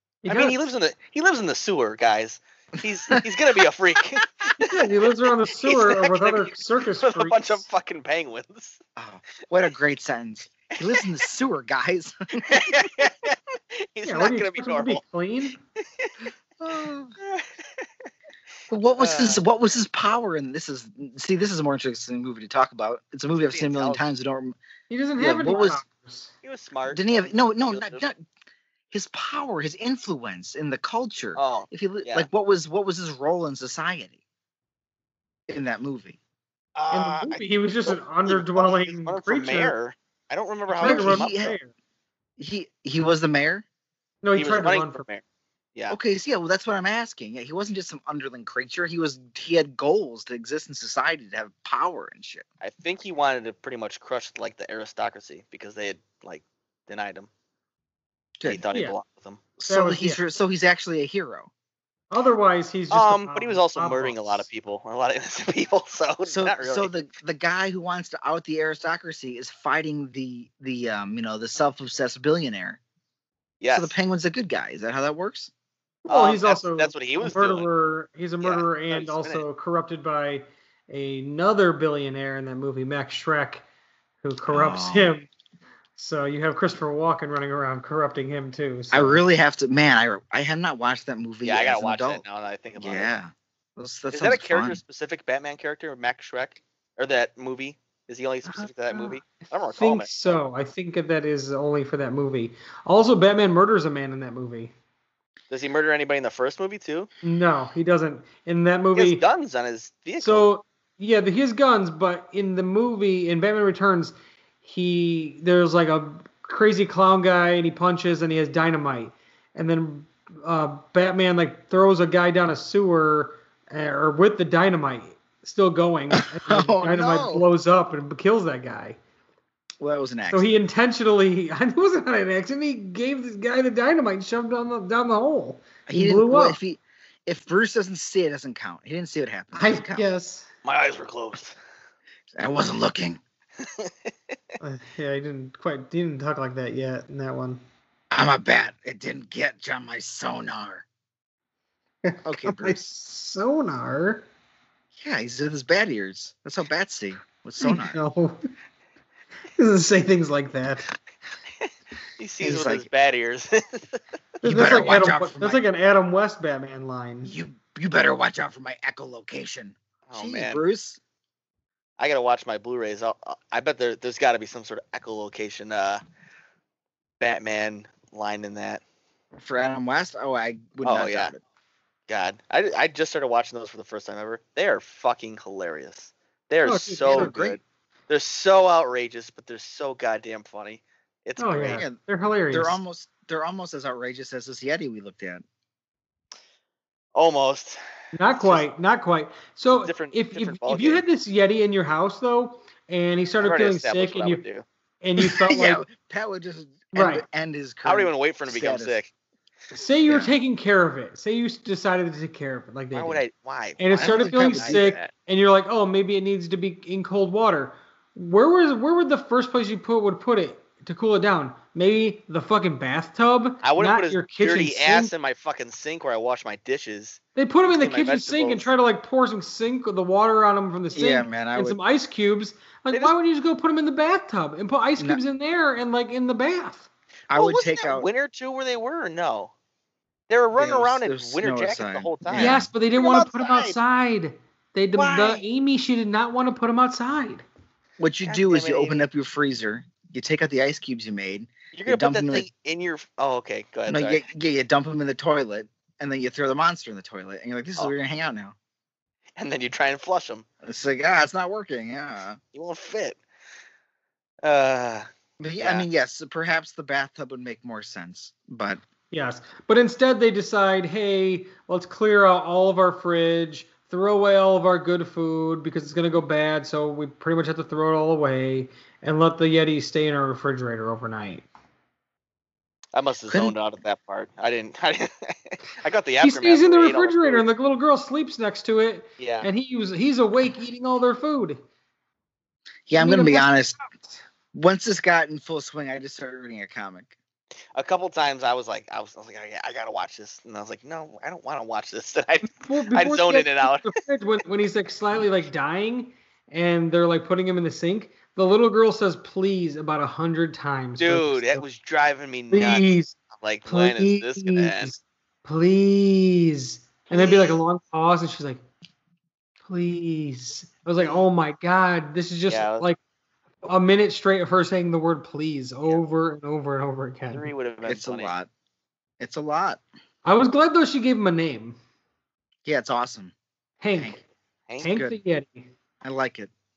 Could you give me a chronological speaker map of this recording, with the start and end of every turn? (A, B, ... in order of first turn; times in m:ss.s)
0:00.2-0:00.6 A
0:00.3-0:04.5 B
0:04.6-0:07.6 A
0:05.6-0:08.8 B
0:09.0-0:13.1 C
0:10.7-0:11.1 B
0:12.4-0:15.0 B
0:14.0-0:15.6 A
0:16.6-0:17.2 C
0:17.2-0:17.5 B
0:18.7-0:24.6 C
0:19.0-0:19.4 B
0:23.4-0:24.0 B
0:24.9-0:26.3 A
0:25.2-0:25.8 C
0:26.4-0:28.0 B
0:26.9-0:28.2 C
0:28.9-0:34.2 C
0:31.4-0:32.3 B
0:35.5-0:36.2 C
0:36.7-0:41.5 B
0:36.9-0:39.7 A
0:40.8-0:41.5 C
0:40.8-0:41.7 A
0:42.4-0:43.6 C
0:44.2-0:45.0 A
0:44.3-0:45.2 B
0:45.9-0:52.4 C
0:52.6-0:57.3 B
0:58.4-0:59.4 B
0:59.6-1:01.5 C
0:59.7-1:00.2 A
1:02.1-1:04.4 A
1:02.9-1:06.9 B
1:06.3-1:12.8 C
1:13.6-1:13.9 B
1:13.7-1:15.5 C
1:16.0-1:23.6 A
1:16.1-1:17.7 B
1:18.4-1:19.4 B
1:24.2-1:25.3 A
1:24.5-1:25.1 C
1:26.0-1:29.2 A
1:28.9-1:32.2 C
1:31.4-1:33.1 B
1:32.8-1:34.8 C
1:34.1-1:40.4 B
1:38.4-1:44.7 A
1:45.5-1:47.1 B
1:47.2-1:49.2 A
1:48.9-1:50.5 B
1:50.2-2:09.0 A
2:06.2-2:07.4 C
2:09.8-2:10.5 C
2:10.3-2:16.6 A
2:15.9-2:20.1 C
2:19.5-2:20.4 A
2:20.6-2:21.5 B
2:22.3-2:23.2 C
2:23.6-2:23.9 B
2:24.6-2:27.6 A
2:28.1-2:30.8 C
2:32.0-2:34.2 A
2:32.2-2:32.8 C
2:35.0-2:38.0 C
2:37.6-2:38.3 A
2:39.6-2:40.9 A
2:41.6-2:44.0 B
2:42.4-2:42.9 C
2:44.4-2:47.3 A
2:44.4-2:45.6 C
2:47.2-2:51.0 C
2:50.1-2:50.6 B
2:52.0-2:56.0 B
2:57.2-2:58.8 B
2:59.4-3:01.4 C
3:00.8-3:01.3 B
3:02.1-3:11.8 B
3:06.6-3:07.4 A
3:07.1-3:07.6 C
3:11.4-3:12.8 A
3:11.7-3:12.0 C
3:12.5-3:15.4 C
3:17.1-3:17.8 B
3:18.1-3:24.4 A
3:19.7-3:21.0 B
3:23.4-3:24.6 B
3:25.0-3:25.8 A
3:25.2-3:29.0 C
3:26.9-3:27.2 A
3:27.8-3:29.1 B
3:29.7-3:33.2 A
3:30.1-3:30.3 C
3:32.9-3:35.1 B
3:33.8-3:45.1 A
3:33.9-3:34.9 C
3:43.6-3:48.6 B
3:47.4-3:56.9 A
3:50.9-3:51.8 C
3:57.3-3:58.1 C
3:57.3-3:59.5 B
4:00.3-4:03.8 B
4:00.6-4:02.7 C
4:02.3-4:07.4 A
4:04.9-4:05.4 B
4:08.0-4:12.5 C
4:08.2-4:09.0 B
4:11.7-4:14.2 B
4:13.9-4:18.5 C
4:19.4-4:20.4 B
4:20.6-4:22.4 C
4:22.5-4:23.2 B
4:24.4-4:25.1 B
4:25.4-4:28.8 C
4:25.6-4:25.8 B
4:29.1-4:41.4 A
4:42.9-4:47.4 B
4:43.3-4:43.5 C
4:46.2-4:51.6 A
4:49.2-4:49.5 B
4:52.9-4:53.8 C
4:52.9-4:54.2 A
4:54.5-4:57.1 C
4:57.7-5:03.9 B
5:02.5-5:11.6 A
5:11.0-5:14.9 B
5:12.5-5:13.1 A
5:13.6-5:18.6 A
5:17.1-5:17.6 B
5:19.6-5:23.0 A
5:22.5-5:22.8 B
5:23.6-5:27.5 A
5:27.3-5:28.3 B
5:27.8-5:28.5 C
5:29.2-5:29.8 C
5:30.2-5:31.8 A
5:32.6-5:33.3 C
5:33.8-5:34.2 A
5:34.7-5:34.9 B
5:34.8-5:35.7 A
5:36.0-5:36.5 C